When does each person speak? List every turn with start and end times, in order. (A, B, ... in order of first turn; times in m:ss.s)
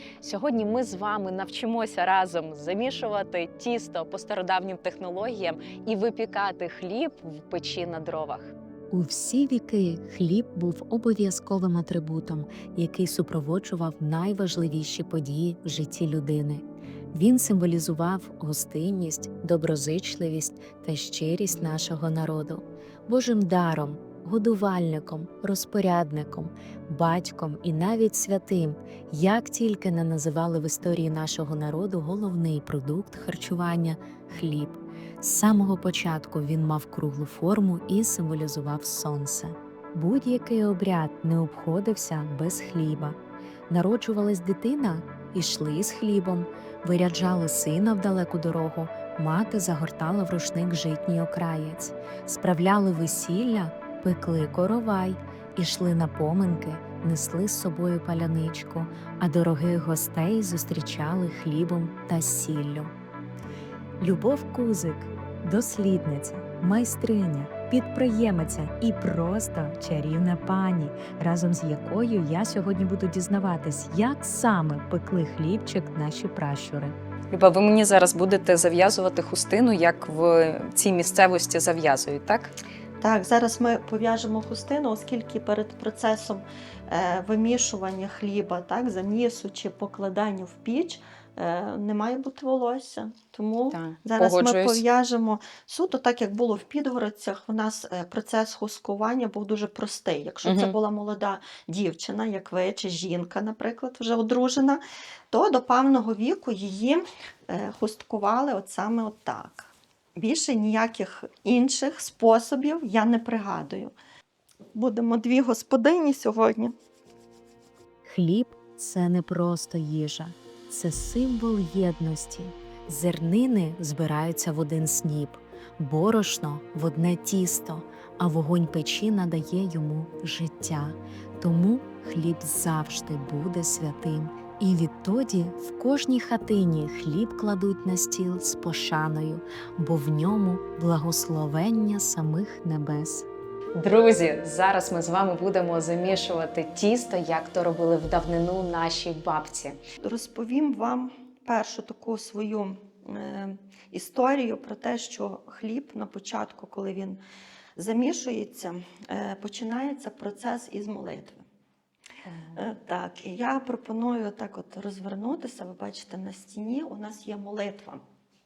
0:00.2-0:08.5 A
0:08.9-0:43.2 B
0:43.7-1:02.9 B
1:04.0-1:16.9 B
1:17.3-1:22.5 A
1:23.0-1:53.9 C
1:33.7-1:34.8 A
1:40.4-1:40.8 A
1:54.7-1:56.7 C
1:58.0-2:23.3 B
2:23.8-2:29.8 A
2:30.0-2:37.2 C
2:37.8-2:41.4 C
2:42.2-2:42.6 A
2:42.5-2:48.0 C